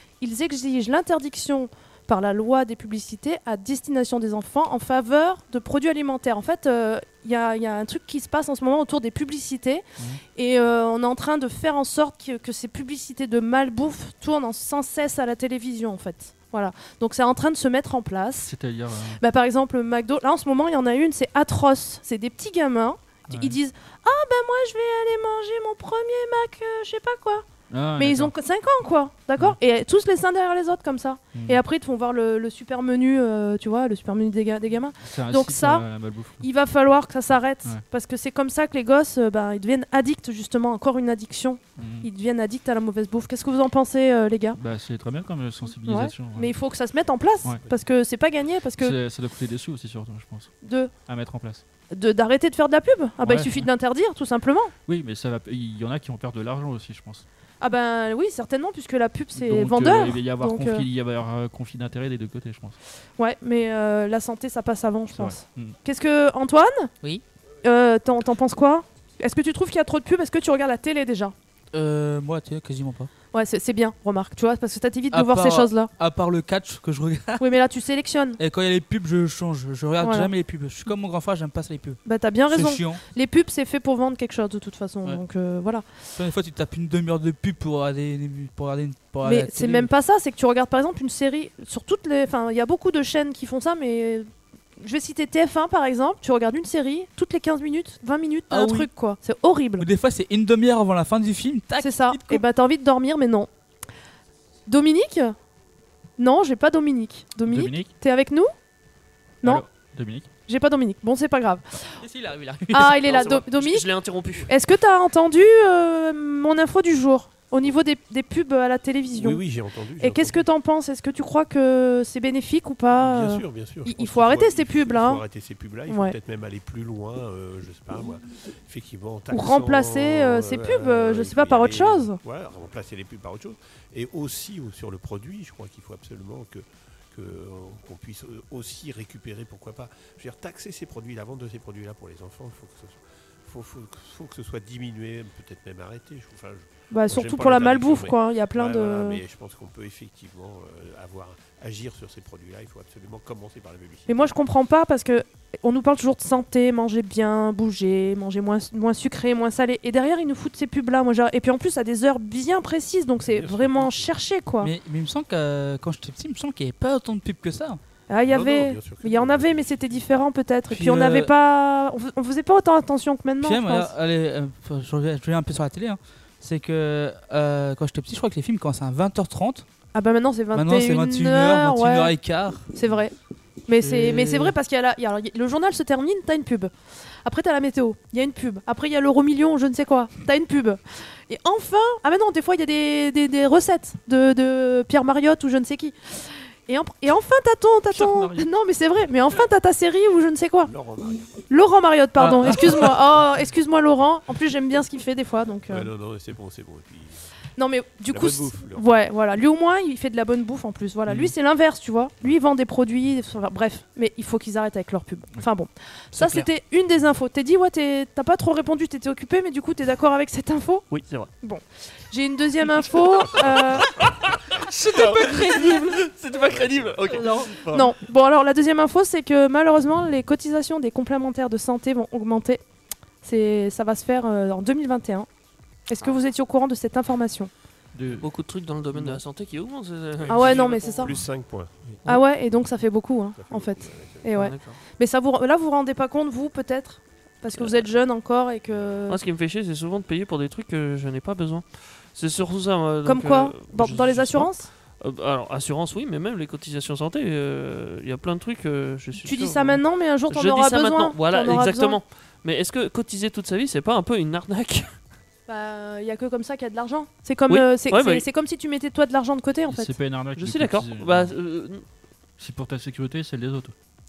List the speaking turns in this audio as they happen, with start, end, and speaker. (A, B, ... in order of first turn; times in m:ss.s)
0:00.2-0:18.5 A
0:18.4-0:19.2 B
0:19.2-0:27.4 A
0:23.3-0:23.6 B
0:27.7-0:28.3 B
0:28.0-0:35.9 A
0:31.4-0:31.6 B
0:35.0-0:36.4 B
0:36.4-0:44.6 A
0:41.8-0:42.1 B
0:44.6-0:46.5 B
0:45.8-0:49.0 A
0:48.8-0:50.5 B
0:50.6-0:50.9 A
0:51.1-0:51.6 B
0:51.9-0:54.7 A
0:53.2-0:53.7 B
0:54.9-0:57.2 B
0:57.6-1:00.9 A
0:59.4-1:02.8 B
1:03.2-1:06.9 A
1:05.2-1:05.8 B
1:07.6-1:11.3 A
1:11.7-1:13.1 C
1:13.3-1:15.9 A
1:15.1-1:17.4 C
1:17.4-1:18.4 A
1:18.4-1:23.0 C
1:20.0-1:20.3 A
1:22.0-1:25.8 A
1:26.2-1:29.9 C
1:29.2-1:39.9 A
1:38.5-1:38.9 C
1:39.8-1:42.4 C
1:41.8-1:43.5 A
1:44.7-1:45.4 A
1:46.2-1:48.5 A
1:47.5-1:47.9 B
1:49.4-1:50.3 B
1:50.5-1:52.0 A
1:52.0-1:53.0 C
1:52.7-1:53.9 A
1:53.0-1:54.5 D
1:54.5-1:59.4 A
1:59.2-2:00.5 E
2:00.0-2:05.2 A
2:03.0-2:34.3 E
2:05.9-2:06.2 A
2:09.3-2:12.2 A
2:26.9-2:29.2 A
2:34.1-2:44.7 A
2:43.2-2:44.2 E
2:44.6-2:47.8 C
2:48.1-2:53.9 A
2:48.3-2:50.1 E
2:50.7-2:51.3 C
2:53.4-2:59.7 C
2:59.9-3:03.1 A
3:00.5-3:02.7 C
3:03.7-3:20.7 A
3:03.8-3:04.6 C
3:17.9-3:18.4 B
3:20.6-3:21.4 E
3:21.5-3:25.9 A
3:22.2-3:22.9 C
3:25.7-3:27.3 E
3:27.6-3:40.9 A
3:28.1-3:28.9 E
3:31.1-3:31.3 B
3:36.1-3:36.5 D
3:40.9-3:41.3 D
3:41.4-3:43.9 A
3:43.2-3:47.7 D
3:43.4-3:47.9 E
3:47.7-3:52.6 A
3:53.2-3:55.3 A
3:55.9-3:57.5 A
3:57.9-3:58.3 B
3:58.2-4:01.2 D
4:00.3-4:01.9 E
4:00.3-4:01.2 A
4:02.0-4:09.2 A
4:03.4-4:04.4 E
4:04.3-4:04.8 D
4:07.6-4:07.8 D
4:08.7-4:09.0 E
4:09.1-4:24.9 D
4:13.0-4:14.7 A
4:19.2-4:22.0 A
4:25.5-4:29.9 A
4:27.5-4:28.2 D
4:29.7-4:31.4 B
4:30.4-4:31.8 D
4:32.4-4:33.7 B